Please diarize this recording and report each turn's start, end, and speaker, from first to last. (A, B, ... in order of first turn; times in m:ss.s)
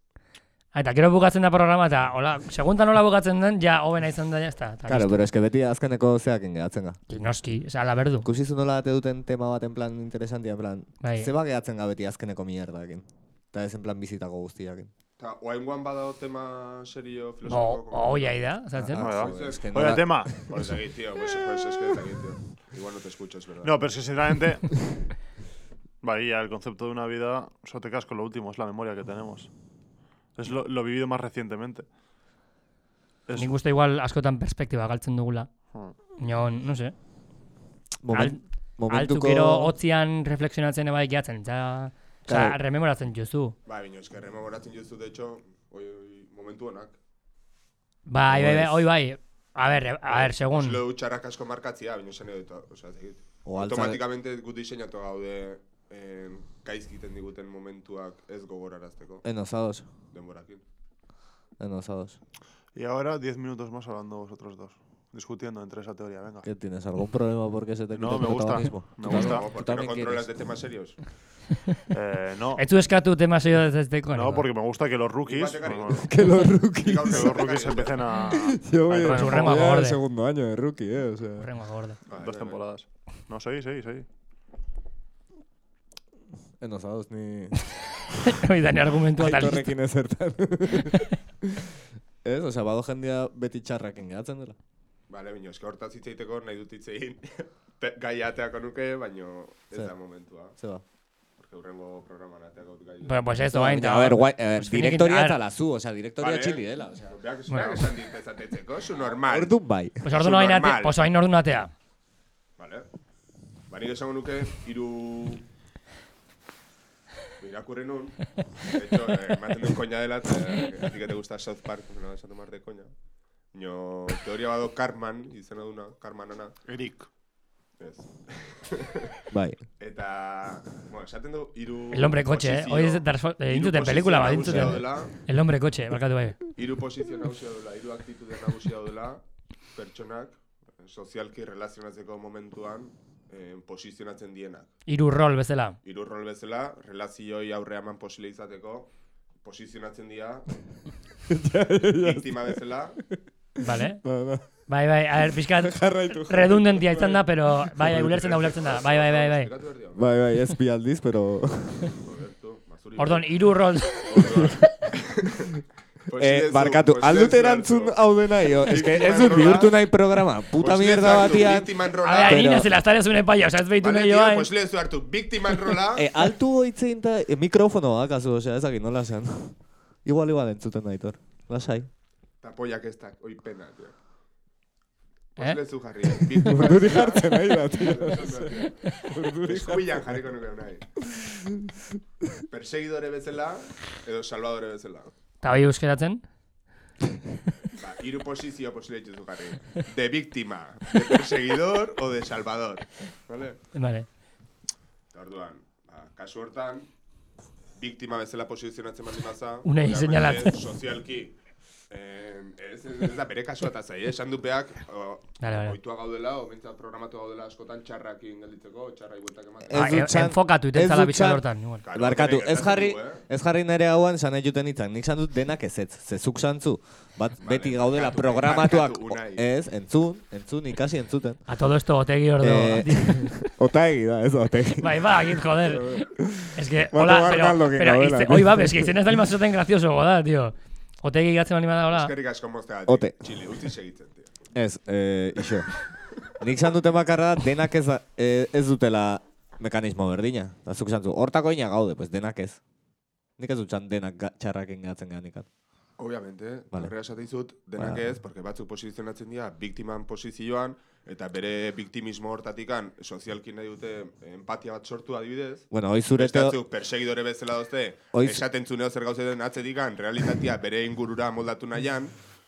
0:00.7-0:05.2 A
0:04.9-0:07.0 B
0:07.1-0:08.3 A
0:08.2-0:14.9 B
0:11.0-0:11.3 A
0:15.2-0:18.4 C
0:17.5-0:19.0 A
0:18.7-0:20.7 B
0:19.0-0:20.5 D
0:19.0-0:23.8 C
0:23.6-0:24.8 D
0:26.0-0:29.5 D
0:30.4-0:31.8 D
0:33.3-0:33.5 D
0:33.4-0:35.5 A
0:36.2-0:36.9 A
0:38.0-0:39.7 B
0:38.1-0:43.5 A
0:42.3-0:42.6 B
0:43.6-0:47.0 C
0:48.1-0:50.8 A
0:48.3-0:48.9 B
0:50.1-0:59.2 C
0:53.4-0:54.0 B
0:59.2-0:59.9 B
1:00.1-1:00.6 C
1:01.6-1:02.2 B
1:02.7-1:06.5 D
1:06.4-1:10.3 B
1:07.9-1:09.5 D
1:09.0-1:11.0 C
1:11.9-1:12.6 D
1:12.6-1:14.4 A
1:14.1-1:16.1 D
1:15.2-1:16.2 C
1:15.9-1:17.3 B
1:16.8-1:18.0 C
1:17.0-1:19.6 D
1:18.3-1:21.5 B
1:18.9-1:20.0 A
1:21.4-1:22.0 A
1:22.1-1:22.6 C
1:22.1-1:24.0 D
1:26.6-1:27.5 B
1:28.2-1:29.7 A
1:29.2-1:31.7 B
1:32.2-1:34.6 B
1:35.1-1:40.5 C
1:40.6-1:40.8 B
1:41.4-1:43.3 C
1:43.0-1:45.4 A
1:43.5-1:47.1 B
1:46.2-1:49.5 C
1:47.5-1:47.9 A
1:49.2-1:50.0 B
1:50.0-1:51.7 A
1:50.1-1:51.0 C
1:52.6-1:52.9 C
1:53.7-1:55.4 C
1:57.4-2:02.9 C
2:03.5-2:06.6 C
2:06.7-2:07.1 D
2:07.8-2:09.2 C
2:09.3-2:09.6 B
2:09.8-2:15.1 C
2:11.9-2:16.4 A
2:14.5-2:14.8 B
2:16.6-2:19.2 C
2:19.7-2:24.7 C
2:24.9-2:25.8 A
2:25.8-2:28.9 C
2:29.4-2:30.5 C
2:31.3-2:32.6 B
2:32.0-2:33.0 C
2:33.1-2:34.4 B
2:33.6-2:34.0 A
2:34.6-2:39.5 A
2:35.4-2:38.0 B
2:37.9-2:40.1 C
2:39.9-2:41.9 B
2:41.8-2:43.3 C
2:43.0-2:44.6 A
2:44.0-2:45.5 C
2:46.1-2:48.0 C
2:46.2-2:52.7 B
2:48.5-2:49.7 C
2:50.6-2:52.5 C
2:52.0-2:54.5 A
2:53.8-2:56.1 C
2:55.9-3:01.9 B
3:02.4-3:03.9 C
3:05.4-3:10.8 C
3:06.3-3:10.2 B
3:11.1-3:11.7 B
3:12.5-3:15.1 C
3:15.4-3:16.2 A
3:17.8-3:23.6 C
3:23.7-3:24.1 A
3:25.1-3:26.9 C
3:27.8-3:31.3 C
3:29.6-3:30.6 A
3:31.9-3:40.1 C
3:35.4-3:35.8 A
3:39.6-3:51.4 B
3:39.7-3:41.8 A
3:41.8-3:43.2 C
3:47.4-3:49.4 C
3:51.5-3:53.5 A
3:52.4-3:59.0 B
3:54.8-4:02.1 A
4:01.9-4:04.3 C
4:02.9-4:03.2 B
4:04.5-4:05.7 B
4:06.3-4:12.6 B
4:13.4-4:15.5 B
4:16.0-4:32.2 C
4:17.8-4:18.0 B
4:25.7-4:26.6 B
4:28.1-4:28.4 B